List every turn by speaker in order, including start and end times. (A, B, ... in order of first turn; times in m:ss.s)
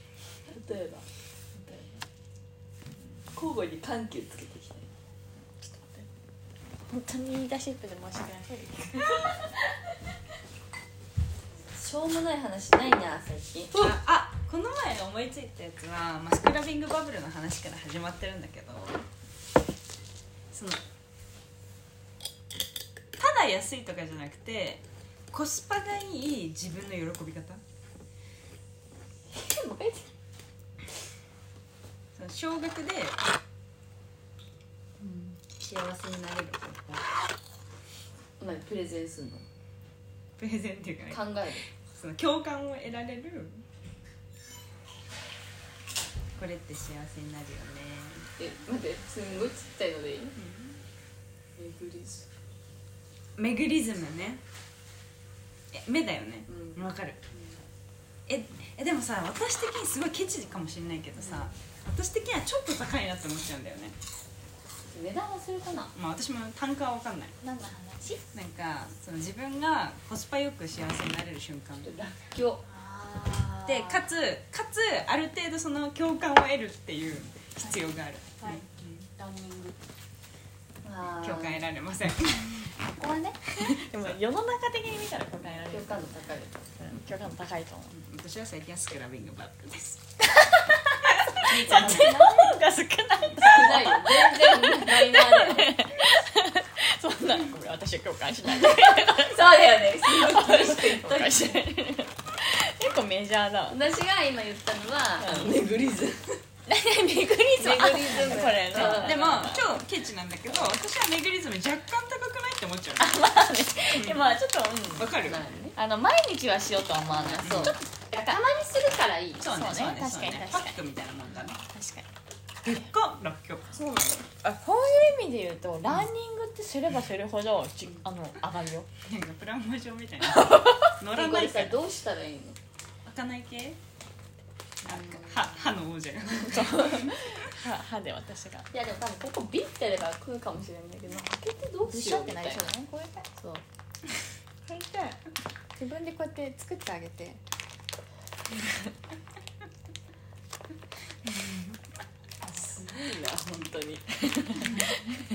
0:00.5-0:02.0 A
0:03.3-0:04.9 A
0:05.6-0:06.1 B
0:06.9-0:09.7 B
0:11.7-0:13.9 A
0:13.7-0:19.0 C
0:20.5-0:20.8 C
0:23.2-0:27.6 C
0:29.3-0:30.1 A
0:32.2-0:33.2 C
0:35.0-0:35.4 A
0:35.5-0:37.0 C
0:38.4-0:39.4 A
0:40.4-0:41.2 C
0:41.1-0:41.6 A
0:41.8-0:43.6 C
0:46.4-0:48.3 C
0:48.4-0:50.4 A
0:50.4-0:50.8 C
0:51.6-0:52.3 A
0:53.4-0:54.4 C
0:55.7-0:57.2 C
0:56.5-0:56.9 A
0:58.3-1:04.0 C
1:01.2-1:01.5 A
1:04.9-1:05.9 A
1:06.0-1:07.4 C
1:07.4-1:08.2 B
1:08.3-1:11.9 C
1:11.8-1:12.6 A
1:12.6-1:14.1 B
1:13.7-1:19.1 C
1:19.2-1:19.8 B
1:20.8-1:21.7 A
1:21.2-1:22.7 C
1:23.4-1:26.1 B
1:25.5-1:26.7 A
1:26.7-1:28.0 B
1:27.9-1:30.0 C
1:30.2-1:43.8 B
1:31.3-1:32.3 C
1:31.6-1:32.6 A
1:33.4-1:35.8 A
1:38.4-1:41.6 A
1:43.7-1:46.4 A
1:45.2-1:45.5 B
1:46.7-1:49.6 B
1:47.6-1:49.6 A
1:48.7-1:53.2 C
1:53.0-1:55.2 B
1:53.9-1:54.3 C
1:55.0-1:55.4 C
1:55.2-1:55.8 A
1:55.8-1:57.8 B
1:57.1-1:59.4 A
1:57.4-1:57.8 C
1:59.4-2:01.6 C
1:59.4-2:00.8 B
2:01.7-2:02.1 B
2:02.6-2:03.7 C
2:03.7-2:04.2 A
2:04.3-2:08.9 B
2:09.0-2:11.8 C
2:11.1-2:12.6 A
2:13.0-2:13.8 C
2:14.8-2:15.7 A
2:14.8-2:17.2 C
2:16.4-2:17.0 A
2:16.5-2:18.7 B
2:18.7-2:22.7 A
2:21.8-2:23.3 B
2:23.4-2:23.6 A
2:24.7-2:25.2 B
2:25.8-2:27.4 B
2:31.2-2:31.8 C
2:32.4-2:35.2 A